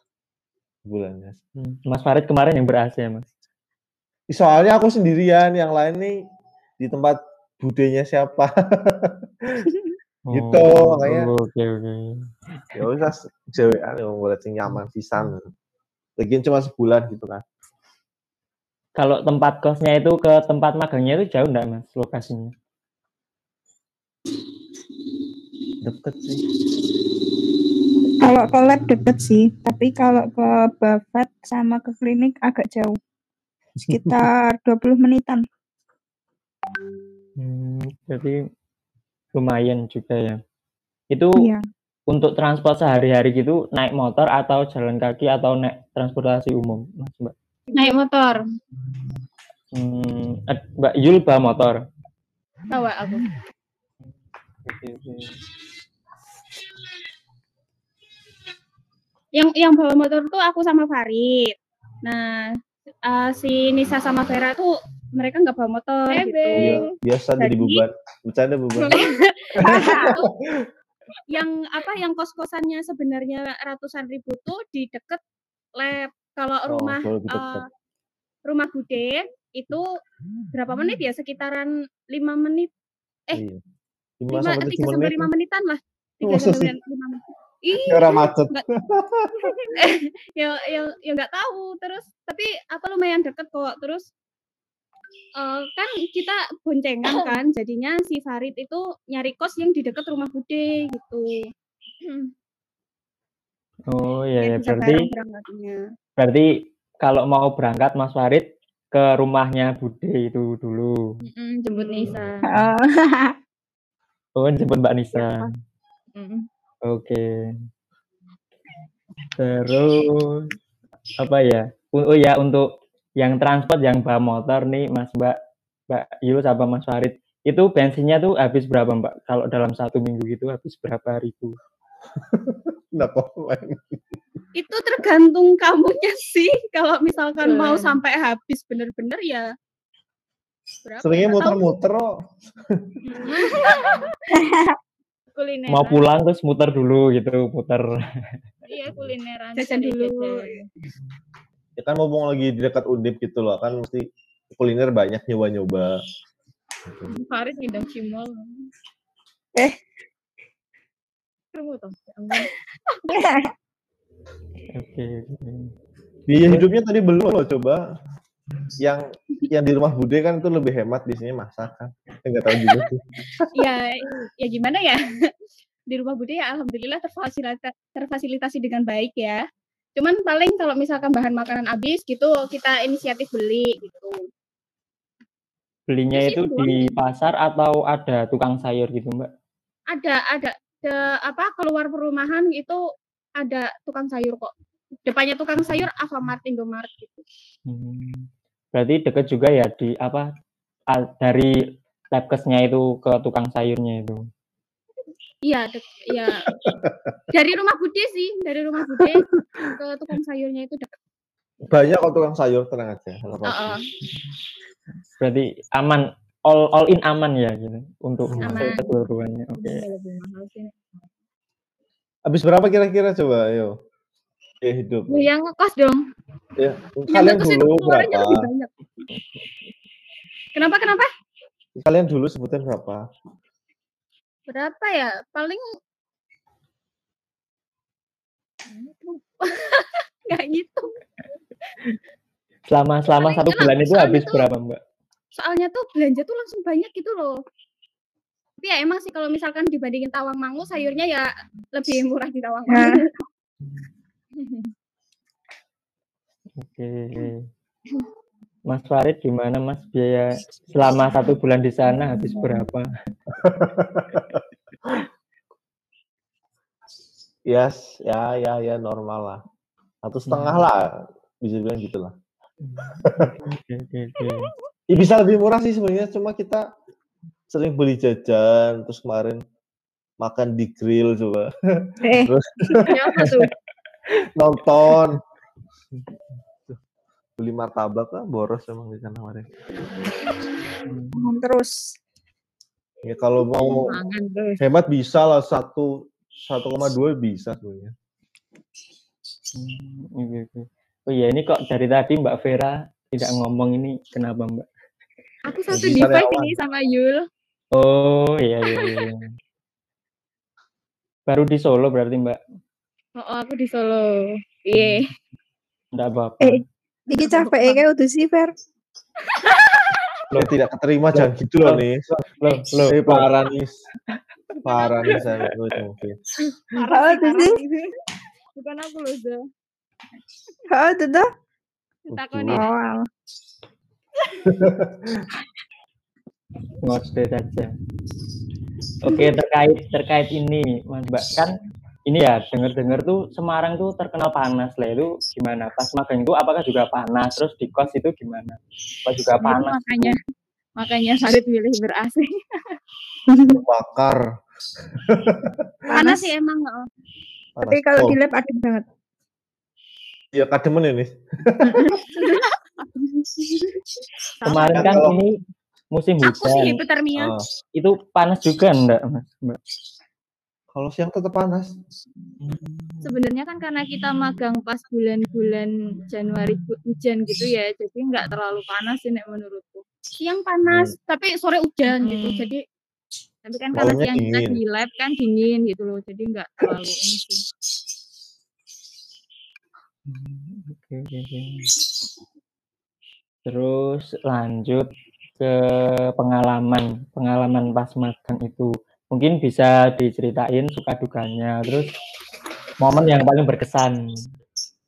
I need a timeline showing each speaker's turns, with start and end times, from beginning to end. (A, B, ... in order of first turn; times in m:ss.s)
0:00.8-0:01.4 A
0:01.6-0:03.3 B
0:04.3-0:06.2 A
0:06.8-0:09.7 A
0:10.3-0:12.2 B
0:10.3-0:11.3 A
0:12.7-0:15.5 A
0:16.2-0:17.4 A
0:19.0-0:22.5 B
0:25.8-0:26.4 A
0:28.2-0:33.0 C
0:33.8-0:34.2 A
0:33.9-0:35.4 C
0:37.4-0:38.4 B
0:39.3-0:40.4 B
0:41.1-0:41.4 B
0:41.4-0:41.6 C
0:42.1-0:47.3 B
0:47.7-0:48.4 D
0:49.7-0:51.8 B
0:52.7-0:53.2 D
0:54.6-0:55.3 B
0:59.3-1:02.5 D
1:03.0-1:06.8 D
1:06.1-1:06.9 E
1:06.6-1:09.0 A
1:07.4-1:07.8 D
1:08.8-1:10.2 D
1:09.6-1:10.7 A
1:09.6-1:10.2 E
1:11.3-1:15.2 D
1:15.8-1:17.6 D
1:16.7-1:17.6 A
1:18.4-1:19.9 D
1:20.5-1:22.7 D
1:23.3-1:23.6 A
1:24.2-1:25.3 A
1:24.3-1:28.6 D
1:26.2-1:26.7 A
1:27.7-1:29.6 A
1:29.7-1:34.1 D
1:35.4-1:41.4 D
1:37.1-1:37.4 E
1:42.0-1:42.3 E
1:43.9-1:45.1 B
1:44.4-1:45.8 D
1:46.2-1:51.0 B
1:51.3-1:52.5 E
1:51.7-1:52.1 D
1:52.4-1:53.3 C
1:54.4-1:55.5 B
1:55.2-1:55.4 E
1:56.1-1:56.5 E
1:56.8-1:57.2 B
1:59.4-2:00.5 B
2:01.2-2:02.7 B
2:03.2-2:05.4 B
2:05.9-2:11.6 B
2:12.3-2:14.0 A
2:14.6-2:19.5 D
2:17.4-2:18.0 E
2:20.9-2:21.6 E
2:21.0-2:22.1 A
2:23.1-2:23.9 D
2:23.2-2:24.0 E
2:24.3-2:24.7 C
2:25.3-2:26.1 E
2:25.7-2:28.0 B
2:28.7-2:30.7 E
2:29.6-2:30.6 D
2:31.8-2:36.0 A
2:37.1-2:38.5 E
2:41.5-2:42.5 E
2:43.1-2:43.4 C
2:44.8-2:45.7 B
2:46.3-2:47.8 A
2:48.8-2:53.6 A
2:53.5-2:55.0 D
2:55.9-2:59.4 D
3:00.0-3:04.2 D
3:05.9-3:09.3 B
3:06.1-3:06.8 D
3:09.9-3:12.8 D
3:13.4-3:14.5 D
3:15.0-3:17.2 D
3:17.7-3:20.3 B
3:20.9-3:21.6 B
3:22.1-3:24.2 B
3:25.4-3:26.5 D
3:26.5-3:27.2 A
3:27.3-3:30.9 D
3:29.0-3:29.7 A
3:31.6-3:33.8 A
3:33.5-3:33.8 E
3:35.2-3:39.8 B
3:38.4-3:38.8 D
3:38.5-3:38.8 E
3:39.5-3:40.7 E
3:42.3-3:43.7 A
3:44.6-3:45.3 A
3:45.1-3:46.0 E
3:46.6-3:48.5 A
3:47.1-3:48.7 D
3:50.5-3:51.1 D
3:51.8-3:53.0 A
3:54.5-3:55.6 D
3:58.8-3:59.2 E
3:59.4-4:00.9 D
4:02.7-4:04.8 B
4:03.2-4:04.4 D
4:05.4-4:07.4 D
4:08.6-4:13.1 D
4:12.7-4:13.0 C
4:16.6-4:17.4 B
4:18.7-4:22.9 B
4:23.4-4:25.0 A
4:27.5-4:29.4 A
4:30.0-4:32.1 A
4:30.3-4:30.6 B
4:32.6-4:34.5 B
4:33.0-4:33.3 A
4:34.9-4:36.6 A
4:37.5-4:39.4 A
4:40.2-4:43.3 A
4:42.0-4:42.3 C
4:42.9-4:43.5 E
4:44.4-4:45.2 A
4:47.4-4:49.5 A
4:50.9-4:51.2 B
4:51.1-4:51.9 C
4:53.0-4:53.9 A
4:53.6-4:54.6 E
4:54.6-4:57.9 A
4:59.5-5:04.7 B
5:05.5-5:07.2 E
5:05.7-5:06.5 A
5:07.7-5:09.3 B
5:08.6-5:09.0 E
5:11.3-5:12.4 B
5:13.2-5:15.1 E
5:14.7-5:15.0 B
5:15.9-5:16.6 B
5:16.4-5:18.5 C
5:17.4-5:17.8 E
5:19.3-5:20.2 E
5:20.3-5:22.0 A
5:21.1-5:23.3 B
5:22.9-5:23.7 A
5:24.6-5:25.2 E
5:24.6-5:26.2 A
5:26.8-5:27.8 E
5:26.9-5:27.6 C
5:28.5-5:29.4 E
5:30.7-5:31.3 C
5:32.1-5:32.7 E
5:32.1-5:32.6 A
5:32.5-5:33.0 C
5:34.4-5:35.2 A
5:36.8-5:37.7 B
5:39.0-5:41.5 B
5:42.1-5:50.1 B
5:49.4-5:50.2 E
5:50.8-5:52.8 E
5:53.3-5:53.6 C
5:53.5-5:54.2 A
5:55.1-5:55.7 A
5:55.9-5:56.3 C
5:55.9-5:56.9 D
5:57.6-5:58.2 A
5:57.6-5:58.8 C
6:00.3-6:02.0 A
6:01.6-6:01.9 C
6:02.1-6:02.5 D
6:04.4-6:05.1 E
6:04.4-6:05.4 B
6:04.7-6:05.2 A
6:05.9-6:06.8 B
6:06.2-6:07.3 D
6:07.1-6:07.4 A
6:07.7-6:09.6 B
6:10.7-6:11.7 A
6:12.4-6:13.1 A
6:13.0-6:19.8 E
6:20.2-6:22.6 D
6:20.6-6:20.9 A
6:22.0-6:22.5 E
6:23.4-6:27.4 E
6:23.7-6:24.6 A
6:30.1-6:31.7 B
6:33.4-6:34.9 B
6:35.4-6:41.9 B
6:42.8-6:44.0 B